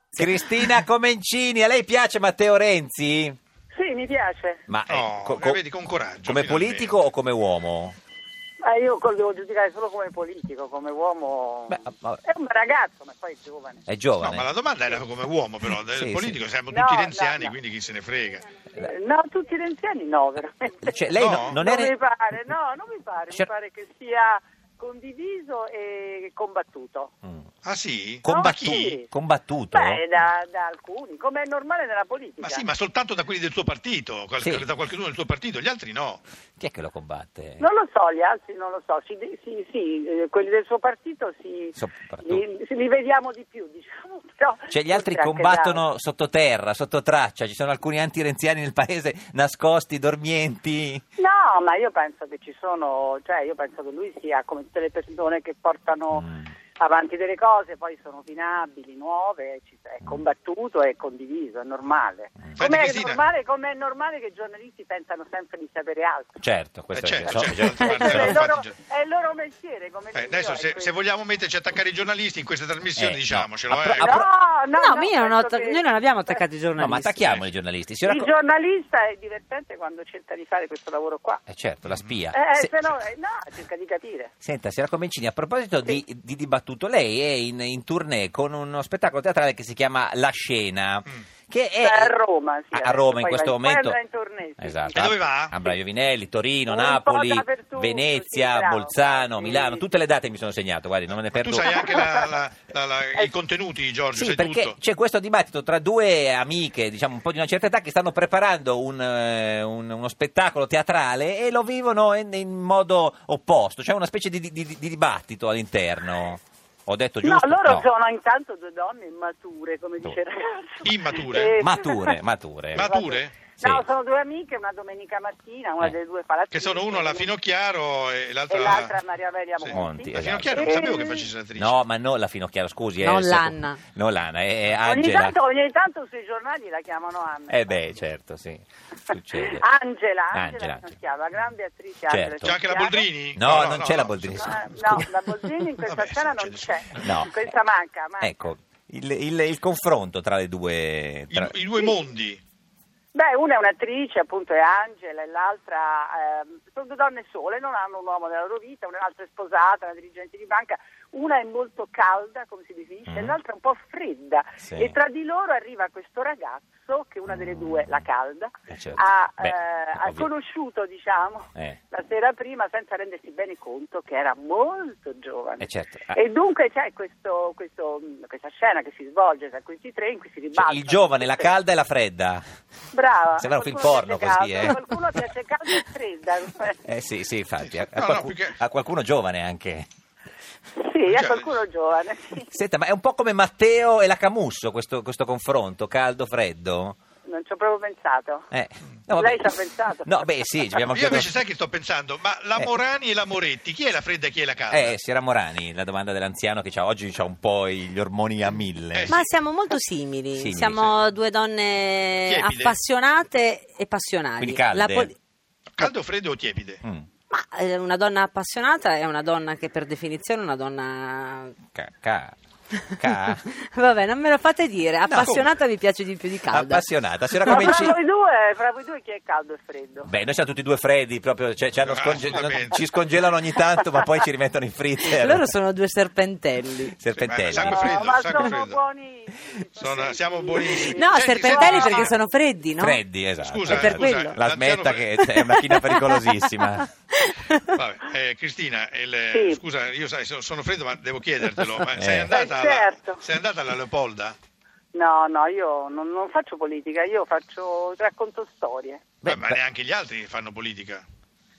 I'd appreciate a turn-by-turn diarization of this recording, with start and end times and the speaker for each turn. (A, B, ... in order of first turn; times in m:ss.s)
0:00.2-0:03.4 A
0:03.7-0:04.6 B
0:04.7-0:05.6 A
0:04.9-0:07.0 C
0:06.2-0:08.0 A
0:08.6-0:13.8 B
0:11.7-0:12.2 A
0:13.9-0:14.4 A
0:14.2-0:18.5 C
0:15.8-0:16.4 A
0:16.7-0:17.5 B
0:18.7-0:27.1 B
0:20.8-0:21.9 A
0:21.2-0:21.6 C
0:27.6-0:28.9 C
0:28.2-0:30.0 A
0:28.2-0:29.0 B
0:29.7-0:32.6 B
0:32.4-0:36.2 C
0:34.4-0:34.7 A
0:36.6-0:37.6 A
0:37.6-0:45.8 B
0:41.8-0:42.4 A
0:44.7-0:51.0 A
0:51.2-1:06.4 B
0:56.1-0:56.4 A
1:02.6-1:03.2 C
1:06.4-1:08.3 A
1:06.9-1:08.7 C
1:07.3-1:10.9 B
1:10.1-1:14.2 C
1:13.0-1:14.3 A
1:14.0-1:16.4 B
1:14.7-1:17.3 D
1:16.8-1:18.3 A
1:18.0-1:21.4 B
1:21.5-1:22.8 A
1:22.3-1:24.3 B
1:24.4-1:32.1 A
1:31.8-1:35.7 B
1:32.7-1:34.0 A
1:34.6-1:41.8 A
1:35.0-1:35.5 C
1:36.7-1:39.8 B
1:41.3-1:44.7 C
1:41.7-1:42.1 B
1:44.1-1:57.9 A
1:57.2-2:02.2 B
2:00.8-2:01.6 C
2:01.6-2:02.9 A
2:02.7-2:03.3 C
2:02.8-2:07.3 B
2:06.5-2:09.0 C
2:08.5-2:11.3 B
2:09.6-2:11.8 C
2:09.7-2:10.7 A
2:11.6-2:15.4 A
2:13.0-2:13.8 D
2:14.8-2:17.9 B
2:17.5-2:19.6 A
2:19.3-2:23.1 B
2:20.3-2:20.9 A
2:22.1-2:22.6 A
2:22.4-2:25.0 C
2:23.4-2:25.0 A
2:24.3-2:28.3 B
2:25.8-2:27.0 C
2:27.0-2:27.5 A
2:28.2-2:31.5 A
2:31.3-2:32.4 C
2:33.1-3:01.5 B
2:43.1-2:43.4 A
2:44.6-2:44.9 A
2:47.3-2:48.0 A
2:48.7-2:50.3 A
2:55.6-2:56.2 A
3:00.5-3:02.4 A
3:02.9-3:06.8 B
3:03.4-3:04.8 A
3:06.8-3:09.9 A
3:07.8-3:08.6 C
3:10.8-3:12.5 B
3:11.0-3:11.5 C
3:12.4-3:17.0 A
3:17.3-3:18.5 B
3:18.5-3:21.3 A
3:19.1-3:20.2 B
3:20.9-3:25.0 C
3:24.7-3:29.2 A
3:28.9-3:29.3 C
3:29.1-3:35.1 D
3:30.3-3:31.0 A
3:32.2-3:32.8 C
3:34.4-3:35.1 A
3:35.8-3:36.8 C
3:37.3-3:41.6 D
3:41.7-3:42.4 A
3:42.9-3:43.4 A
3:43.5-3:46.8 D
3:45.0-3:45.5 A
3:46.5-3:48.0 A
3:47.4-3:50.1 B
3:47.5-3:47.8 D
3:50.0-3:55.5 A
3:51.8-3:52.8 C
3:55.1-3:57.0 D
3:57.0-3:58.1 A
3:57.2-3:58.8 C
3:57.5-4:02.1 B
3:59.8-4:02.1 C
4:00.9-4:03.0 D
4:02.8-4:06.8 A
4:03.4-4:05.2 C
4:03.6-4:04.4 D
4:05.3-4:06.4 D
4:07.2-4:07.6 D
4:07.7-4:14.4 C
4:09.3-4:09.6 B
4:12.0-4:12.3 A
4:12.3-4:13.2 B
4:14.9-4:19.0 B
4:19.2-4:19.6 A
4:19.2-4:21.0 C